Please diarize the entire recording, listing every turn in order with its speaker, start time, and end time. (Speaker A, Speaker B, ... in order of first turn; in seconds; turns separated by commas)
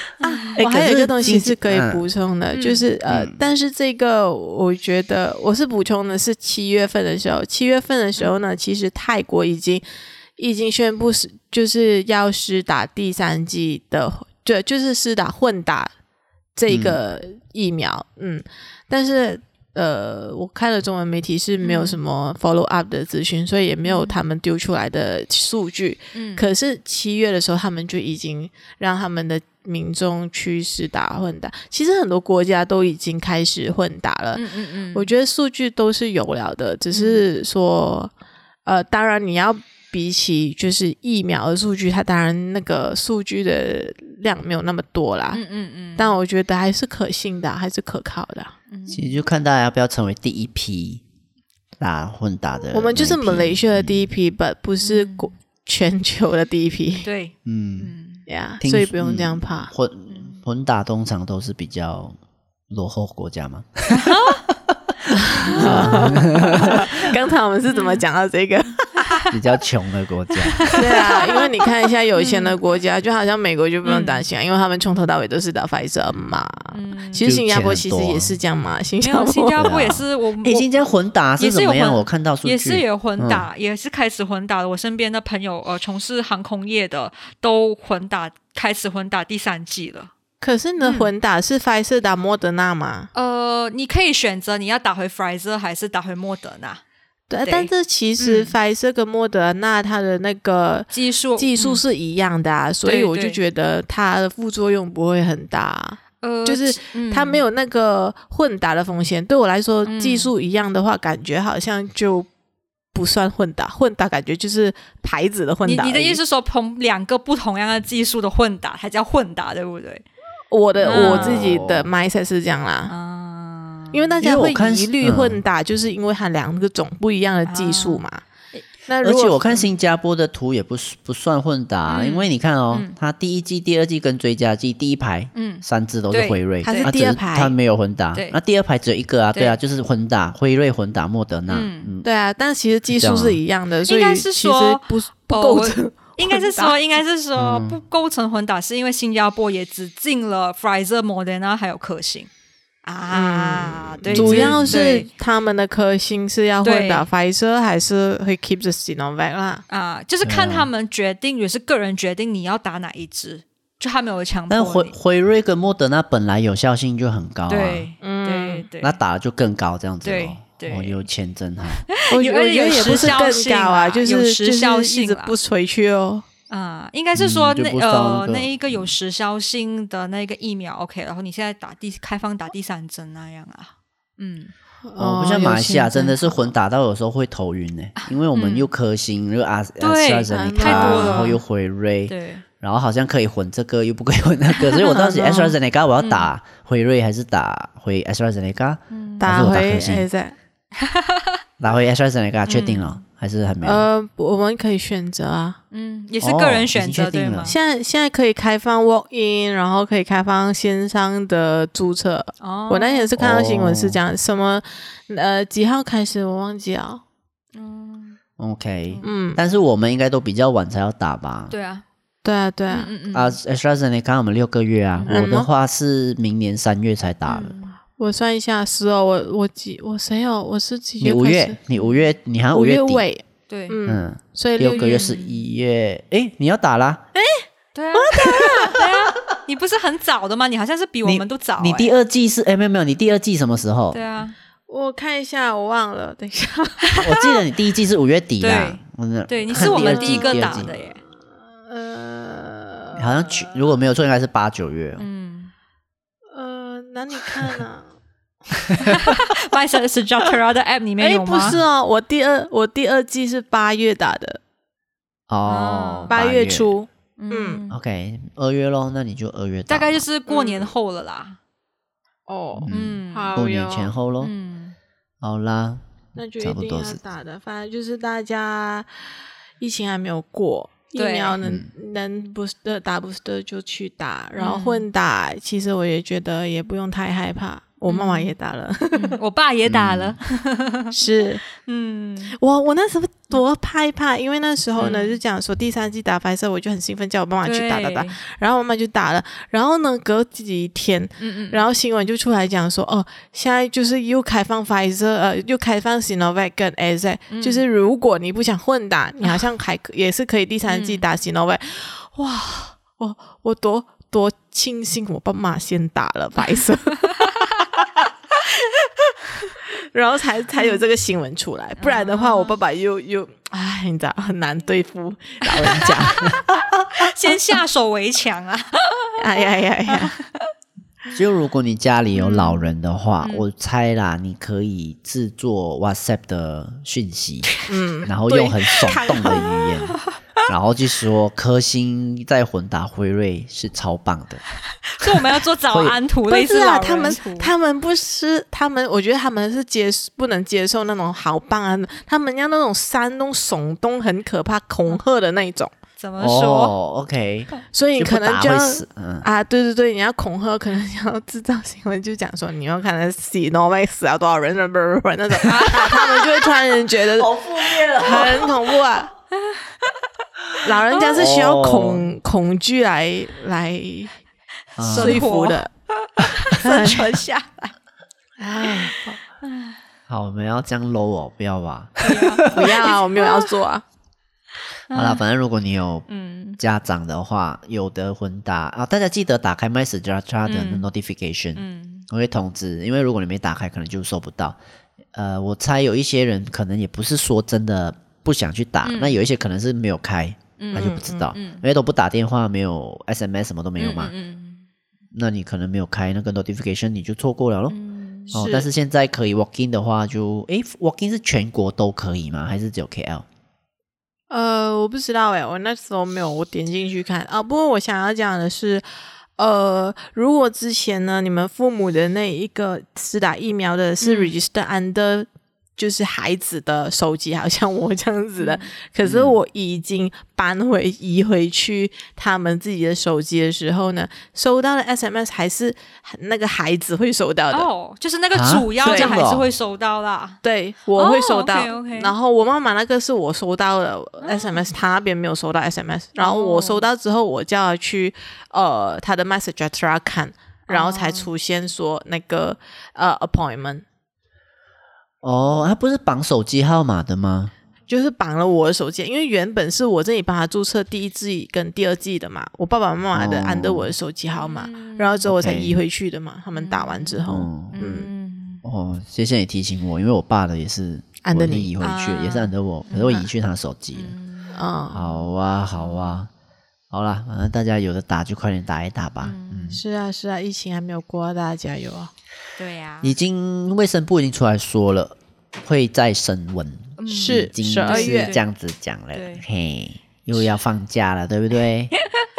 Speaker A: 0.2-0.6, Speaker B: 0.2-9.8, Speaker C: 0.6-2.0, Speaker A: 2.5-2.8, Speaker C: 3.1-3.4, Speaker B: 10.4-15.9, Speaker B: 16.6-38.1, Speaker C: 16.7-17.0, Speaker A: 21.6-22.0, Speaker A: 23.8-24.2, Speaker A: 26.1-26.4, Speaker A: 34.3-35.1, Speaker A: 36.9-37.2, Speaker B: 38.6-45.4, Speaker A: 45.3-46.1, Speaker B: 46.0-48.5, Speaker A: 48.7-49.1, Speaker C: 48.9-51.0, Speaker C: 51.8-54.1, Speaker B: 52.7-57.1, Speaker A: 54.8-55.3, Speaker A: 57.0-58.2, Speaker C: 57.5-57.9, Speaker B: 58.3-59.7, Speaker C: 58.6-62.1, Speaker A: 60.1-60.4, Speaker C: 62.7-64.2, Speaker A: 63.9-64.4, Speaker A: 65.3-66.9, Speaker B: 65.4-69.1, Speaker C: 65.5-66.8, Speaker A: 67.7-68.0, Speaker C: 69.3-70.7, Speaker A: 70.6-71.4, Speaker B: 70.7-79.7, Speaker A: 72.2-72.5, Speaker A: 73.8-74.2, Speaker A: 76.7-77.3, Speaker C: 77.2-78.3, Speaker A: 79.0-80.7, Speaker C: 79.6-83.5, Speaker A: 81.4-90.1, Speaker B: 90.4-93.1, Speaker A: 90.8-91.1, Speaker A: 93.1-96.8, Speaker B: 97.3-112.3, Speaker A: 97.4-98.5, Speaker A: 100.9-101.8, Speaker A: 102.8-103.4, Speaker A: 106.2-107.4, Speaker A: 109.8-110.3, Speaker B: 112.9-116.2, Speaker A: 115.6-120.0, Speaker B: 120.5-122.9, Speaker A: 120.8-121.5, Speaker C: 120.8-121.9, Speaker A: 122.9-124.2, Speaker B: 123.9-128.2, Speaker C: 124.2-125.4, Speaker A: 127.5-128.6, Speaker B: 128.9-129.6, Speaker C: 129.0-142.1, Speaker A: 131.9-132.9, Speaker A: 135.3-136.9, Speaker B: 136.6-137.5, Speaker A: 141.5-141.9, Speaker B: 142.0-146.8, Speaker C: 142.9-143.4, Speaker A: 143.9-152.3, Speaker C: 147.4-147.8, Speaker A: 152.8-155.1, Speaker B: 153.1-159.6, Speaker C: 154.1-154.8, Speaker A: 156.6-157.1, Speaker A: 159.7-164.9, Speaker C: 160.2-160.7, Speaker C: 164.5-167.9, Speaker A: 167.5-168.9, Speaker B: 168.0-168.7, Speaker C: 168.8-171.8, Speaker A: 170.0-171.0, Speaker A: 171.9-175.3, Speaker B: 172.1-176.2, Speaker A: 176.5-184.5, Speaker C: 177.1-178.9, Speaker B: 184.8-186.4, Speaker C: 185.0-200.1, Speaker A: 188.0-188.7, Speaker A: 189.8-191.4, Speaker B: 190.3-191.4, Speaker A: 192.1-192.4, Speaker A: 194.5-196.3, Speaker A: 198.9-199.4, Speaker B: 199.2-200.3, Speaker A: 200.8-201.3, Speaker C: 201.6-203.9, Speaker A: 202.5-203.0, Speaker B: 203.6-205.6, Speaker A: 205.7-207.5, Speaker C: 206.2-207.6, Speaker B: 207.4-217.0, Speaker A: 212.4-213.1, Speaker C: 213.2-214.0, Speaker A: 217.5-218.2, Speaker C: 218.4-221.5, Speaker B: 219.0-219.4, Speaker A: 221.5-221.8, Speaker B: 222.2-222.9, Speaker A: 222.7-223.4, Speaker C: 223.1-227.6, Speaker B: 225.1-225.5, Speaker A: 227.3-227.8, Speaker B: 228.0-231.6, Speaker C: 231.0-233.0, Speaker A: 231.7-232.0, Speaker B: 232.5-235.1, Speaker A: 233.5-233.8, Speaker C: 233.8-237.0, Speaker A: 234.8-235.3, Speaker B: 237.1-238.8, Speaker A: 237.7-241.9, Speaker C: 241.0-244.0, Speaker A: 243.9-244.3, Speaker B: 244.7-247.0, Speaker A: 246.9-247.2, Speaker C: 247.0-250.7, Speaker A: 248.4-251.0, Speaker B: 249.6-250.8, Speaker B: 251.6-253.5, Speaker C: 252.9-255.0, Speaker A: 255.0-255.5, Speaker B: 256.3-257.9, Speaker A: 258.8-261.6, Speaker B: 261.0-264.4, Speaker C: 265.3-266.7, Speaker A: 265.5-266.1, Speaker B: 266.1-267.6, Speaker A: 267.2-267.8, Speaker C: 267.7-270.0, Speaker A: 269.7-271.4, Speaker B: 270.3-270.7, Speaker B: 272.3-273.9, Speaker C: 272.6-274.3, Speaker A: 272.7-273.3, Speaker A: 274.2-274.7, Speaker C: 275.2-275.8, Speaker B: 276.1-278.9, Speaker C: 276.4-277.0, Speaker B: 279.6-289.2, Speaker A: 280.9-281.4, Speaker C: 281.4-281.7, Speaker A: 284.4-284.9, Speaker A: 287.9-288.3, Speaker A: 288.9-292.3, Speaker C: 289.6-290.2, Speaker B: 290.9-291.4, Speaker B: 292.3-317.4, Speaker A: 294.8-295.2, Speaker A: 297.4-298.2, Speaker A: 301.2-301.6, Speaker A: 307.3-307.6, Speaker A: 310.6-311.0, Speaker A: 317.1-317.7, Speaker B: 319.8-326.4, Speaker A: 321.8-322.6, Speaker A: 325.5-326.4, Speaker A: 326.9-329.1, Speaker B: 329.2-330.1, Speaker A: 329.9-330.4, Speaker C: 331.1-337.5, Speaker A: 332.1-332.7, Speaker B: 337.7-339.5, Speaker C: 338.0-344.4, Speaker A: 344.9-347.5, Speaker C: 345.6-346.0, Speaker B: 346.3-355.7, Speaker A: 356.0-356.7, Speaker C: 356.2-359.2, Speaker B: 357.7-367.4, Speaker A: 365.4-366.4, Speaker C: 367.1-368.5, Speaker B: 367.9-369.1, Speaker B: 370.6-374.1, Speaker C: 371.1-372.1, Speaker C: 374.8-375.2, Speaker A: 374.8-377.7, Speaker B: 374.9-375.7, Speaker B: 376.5-377.2, Speaker B: 378.4-379.1, Speaker A: 379.4-379.8, Speaker C: 380.1-382.9, Speaker A: 382.0-383.4, Speaker B: 382.5-383.8, Speaker A: 384.9-385.2, Speaker C: 384.9-386.1, Speaker A: 386.1-386.6, Speaker C: 386.6-394.6, Speaker A: 390.5-390.9, Speaker A: 391.5-392.1, Speaker C: 395.1-404.1, Speaker A: 398.8-399.2, Speaker A: 400.6-401.6, Speaker B: 400.7-401.3, Speaker A: 403.8-404.6, Speaker C: 405.1-407.8, Speaker A: 407.7-408.4, Speaker B: 408.3-408.7, Speaker C: 408.3-413.2, Speaker B: 414.3-418.8, Speaker B: 419.4-437.7, Speaker A: 424.0-424.3, Speaker A: 428.4-428.7, Speaker C: 429.0-429.4, Speaker A: 437.5-440.4, Speaker C: 438.3-439.5, Speaker B: 438.9-439.3, Speaker B: 440.4-453.8, Speaker A: 440.9-442.1, Speaker A: 444.2-444.6, Speaker A: 446.2-446.8, Speaker A: 450.7-451.3, Speaker C: 455.2-457.5, Speaker B: 457.9-468.1, Speaker C: 463.1-463.9, Speaker A: 464.4-465.2, Speaker C: 465.2-465.7, Speaker A: 466.6-468.6, Speaker C: 467.3-467.8, Speaker C: 468.6-474.1, Speaker B: 471.2-471.7, Speaker A: 471.8-473.3, Speaker A: 473.9-474.6, Speaker B: 474.5-475.0, Speaker C: 474.9-476.3, Speaker A: 475.8-476.2, Speaker C: 476.9-479.8, Speaker A: 479.2-479.8, Speaker B: 479.7-482.1, Speaker A: 482.6-483.1, Speaker C: 483.0-491.9, Speaker A: 487.0-488.4, Speaker B: 487.1-488.3, Speaker A: 489.1-489.4